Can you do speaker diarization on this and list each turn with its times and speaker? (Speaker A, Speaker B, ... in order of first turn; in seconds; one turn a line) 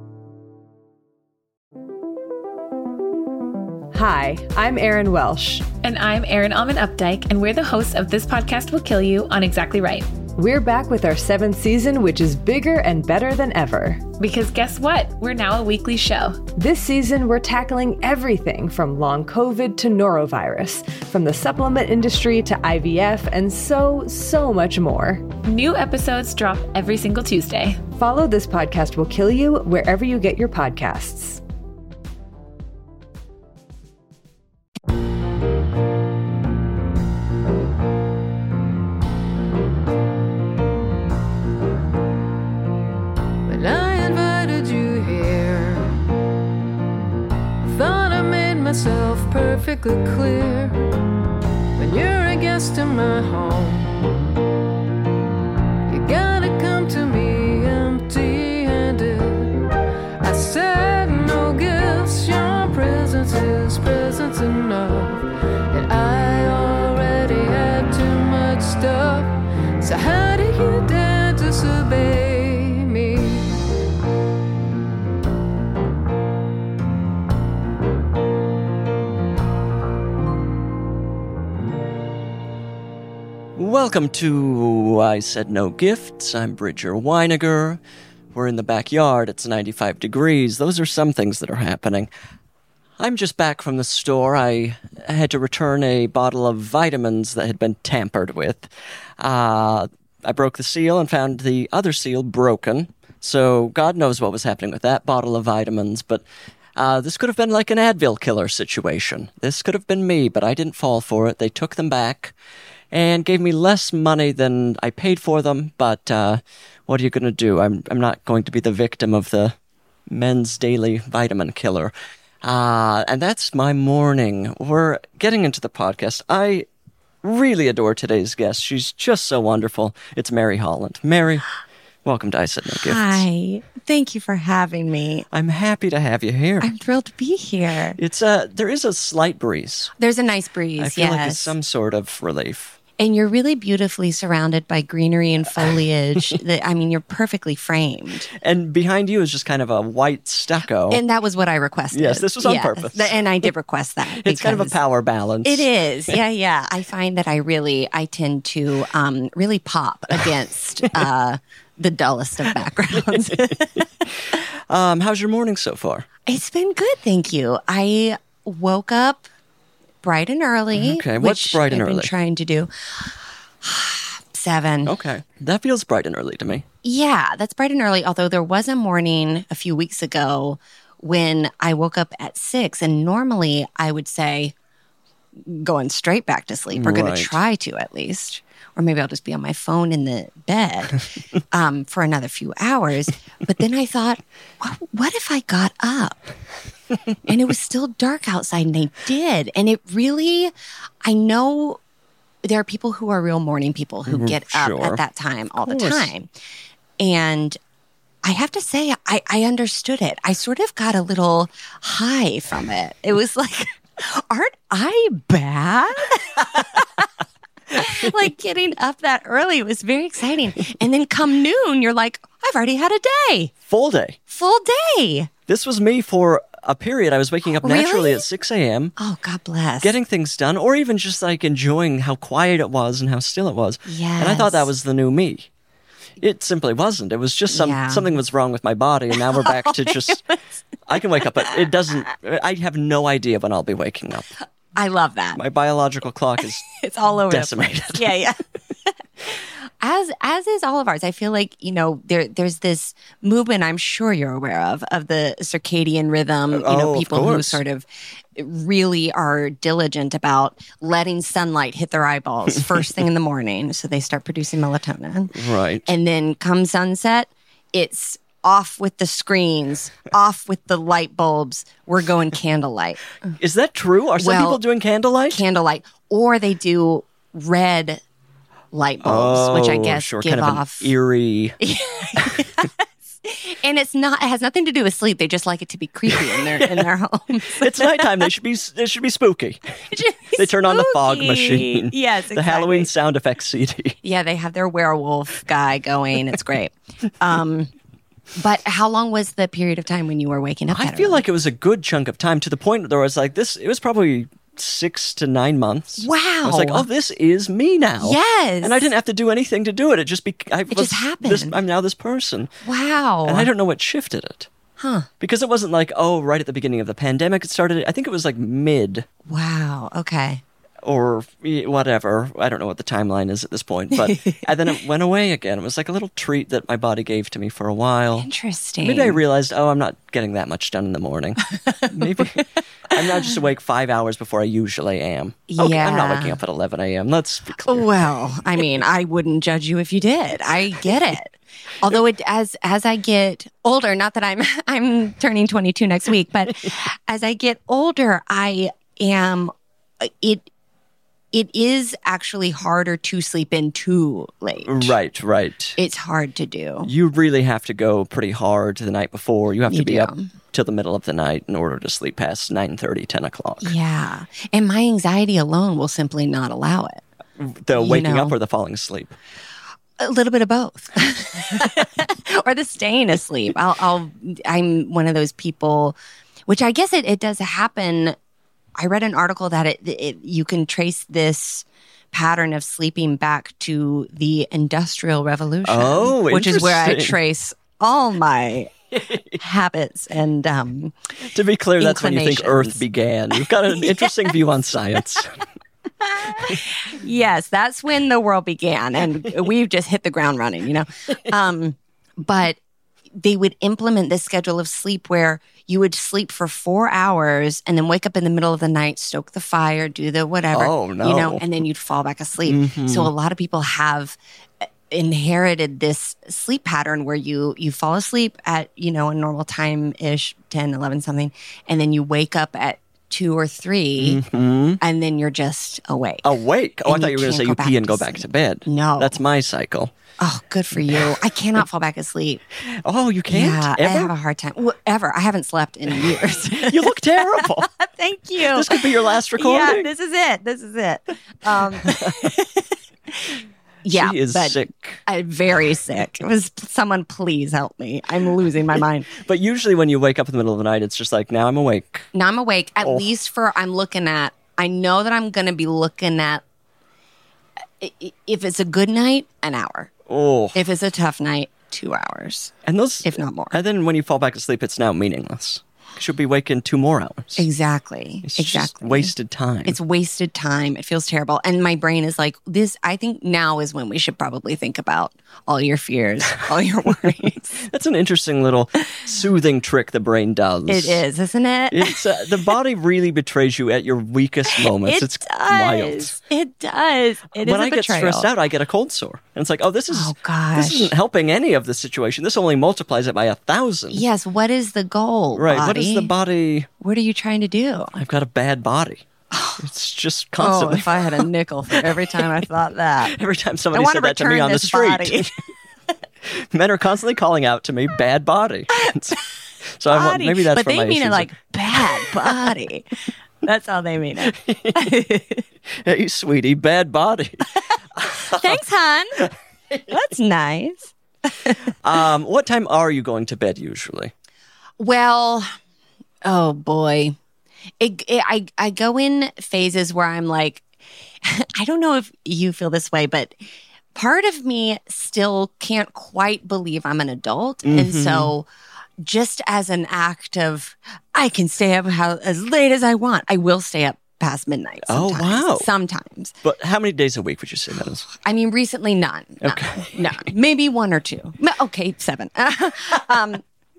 Speaker A: 3.9-5.7
Speaker B: 5.8-10.2
Speaker A: 10.3-14.1
Speaker B: 14.2-16.4
Speaker A: 16.6-25.3
Speaker B: 25.4-27.8
Speaker A: 27.9-31.4
Speaker C: 43.5-45.9
Speaker C: 47.6-50.9
Speaker C: 51.8-54.0
Speaker C: 55.9-59.6
Speaker C: 60.2-73.6
Speaker D: 83.6-87.8
Speaker D: 88.3-92.1
Speaker D: 93.0-98.7
Speaker D: 99.2-106.2
Speaker D: 106.8-112.3
Speaker D: 112.9-119.6
Speaker D: 120.1-126.7
Speaker D: 127.2-131.5
Speaker D: 132.1-133.2
Speaker E: 132.7-135.3
Speaker D: 135.3-136.7
Speaker E: 136.6-138.0
Speaker D: 138.0-139.9
Speaker E: 140.0-141.5
Speaker D: 140.8-142.8
Speaker E: 143.0-148.3
Speaker D: 148.4-151.0
Speaker E: 150.9-154.8
Speaker D: 151.9-153.2
Speaker D: 154.2-156.1
Speaker E: 155.4-163.9
Speaker D: 162.9-166.1
Speaker E: 166.3-169.3
Speaker E: 170.0-173.1
Speaker D: 170.7-172.1
Speaker E: 173.6-174.9
Speaker D: 174.9-176.7
Speaker E: 176.8-184.5
Speaker E: 185.4-196.2
Speaker D: 186.7-187.4
Speaker E: 197.2-200.5
Speaker E: 201.0-201.8
Speaker E: 202.4-206.3
Speaker D: 204.1-205.0
Speaker D: 205.6-206.1
Speaker E: 207.0-207.6
Speaker E: 208.2-217.0
Speaker E: 217.7-223.5
Speaker D: 217.8-218.1
Speaker D: 223.7-224.2
Speaker E: 224.3-225.3
Speaker D: 225.5-228.9
Speaker E: 227.6-228.3
Speaker E: 229.0-229.9
Speaker D: 229.8-235.5
Speaker E: 233.9-234.7
Speaker D: 236.2-240.2
Speaker E: 237.5-238.2
Speaker E: 239.3-240.4
Speaker D: 240.9-244.3
Speaker E: 244.8-245.4
Speaker D: 245.3-246.7
Speaker E: 246.6-248.4
Speaker D: 247.3-248.1
Speaker E: 249.8-265.3
Speaker D: 256.5-257.6
Speaker D: 265.4-265.9
Speaker E: 265.9-273.1
Speaker D: 273.4-275.4
Speaker E: 274.2-274.6
Speaker E: 275.3-278.0
Speaker E: 278.7-280.9
Speaker D: 279.0-281.6
Speaker E: 281.6-282.7
Speaker E: 283.2-288.3
Speaker D: 286.1-286.9
Speaker D: 287.5-289.6
Speaker E: 289.9-292.9
Speaker D: 290.3-294.0
Speaker E: 294.0-297.7
Speaker E: 298.4-301.2
Speaker D: 300.7-312.5
Speaker E: 306.0-306.9
Speaker E: 308.0-308.8
Speaker E: 310.7-311.6
Speaker E: 312.6-313.5
Speaker D: 313.2-314.5
Speaker E: 314.8-315.1
Speaker D: 315.2-319.1
Speaker E: 319.3-320.4
Speaker D: 320.8-328.3
Speaker E: 324.1-324.4
Speaker E: 328.2-329.2
Speaker D: 328.8-337.9
Speaker E: 331.6-332.3
Speaker E: 335.5-336.4
Speaker E: 337.6-350.5
Speaker E: 351.3-354.9
Speaker D: 354.6-355.8
Speaker E: 355.8-356.9
Speaker D: 356.9-363.7
Speaker E: 359.7-360.3
Speaker E: 363.6-367.0
Speaker D: 367.4-369.2
Speaker E: 367.8-368.4
Speaker E: 370.0-378.2
Speaker E: 378.8-388.7
Speaker D: 385.6-387.2
Speaker D: 388.9-389.4
Speaker E: 389.3-390.9
Speaker D: 391.3-395.4
Speaker E: 391.8-392.8
Speaker E: 393.7-394.3
Speaker E: 396.0-402.6
Speaker E: 403.2-414.2
Speaker D: 410.5-411.4
Speaker D: 412.5-413.1
Speaker E: 414.9-424.2
Speaker D: 424.0-424.8
Speaker E: 424.8-426.3
Speaker D: 426.2-429.9
Speaker E: 426.8-429.2
Speaker E: 430.2-432.4
Speaker D: 430.9-431.2
Speaker D: 432.7-434.1
Speaker E: 433.3-442.6
Speaker D: 436.1-437.7
Speaker D: 438.4-439.9
Speaker D: 441.8-442.3
Speaker E: 443.3-449.1
Speaker D: 444.0-445.0
Speaker D: 449.2-452.1
Speaker E: 452.1-456.4
Speaker D: 452.8-453.1
Speaker E: 457.8-459.9
Speaker D: 460.1-460.6
Speaker E: 460.5-462.5
Speaker D: 462.7-467.5
Speaker E: 463.0-463.6
Speaker E: 467.4-477.6
Speaker D: 468.2-469.8
Speaker D: 477.6-481.0
Speaker E: 480.7-482.3
Speaker D: 481.7-486.1
Speaker E: 484.5-488.3
Speaker D: 487.3-494.0
Speaker E: 489.9-490.9
Speaker E: 493.9-496.1
Speaker D: 495.4-496.7
Speaker E: 496.8-498.0
Speaker D: 498.0-499.0
Speaker E: 499.3-499.6
Speaker D: 499.6-502.4
Speaker E: 500.4-503.1
Speaker D: 503.0-505.3
Speaker E: 503.7-505.3
Speaker D: 506.3-509.2
Speaker E: 508.7-509.2
Speaker D: 509.8-512.5
Speaker E: 509.9-515.4
Speaker D: 514.3-514.9
Speaker D: 515.7-518.6
Speaker E: 518.2-519.3
Speaker D: 519.2-519.9
Speaker E: 519.9-521.7
Speaker D: 521.8-524.1
Speaker E: 524.8-525.5
Speaker E: 526.2-527.2
Speaker E: 527.8-530.6
Speaker E: 531.2-533.4
Speaker E: 533.9-538.5
Speaker D: 537.6-538.3
Speaker E: 539.0-546.4
Speaker D: 544.9-545.7
Speaker D: 546.4-548.1
Speaker E: 548.1-553.4
Speaker D: 549.4-550.2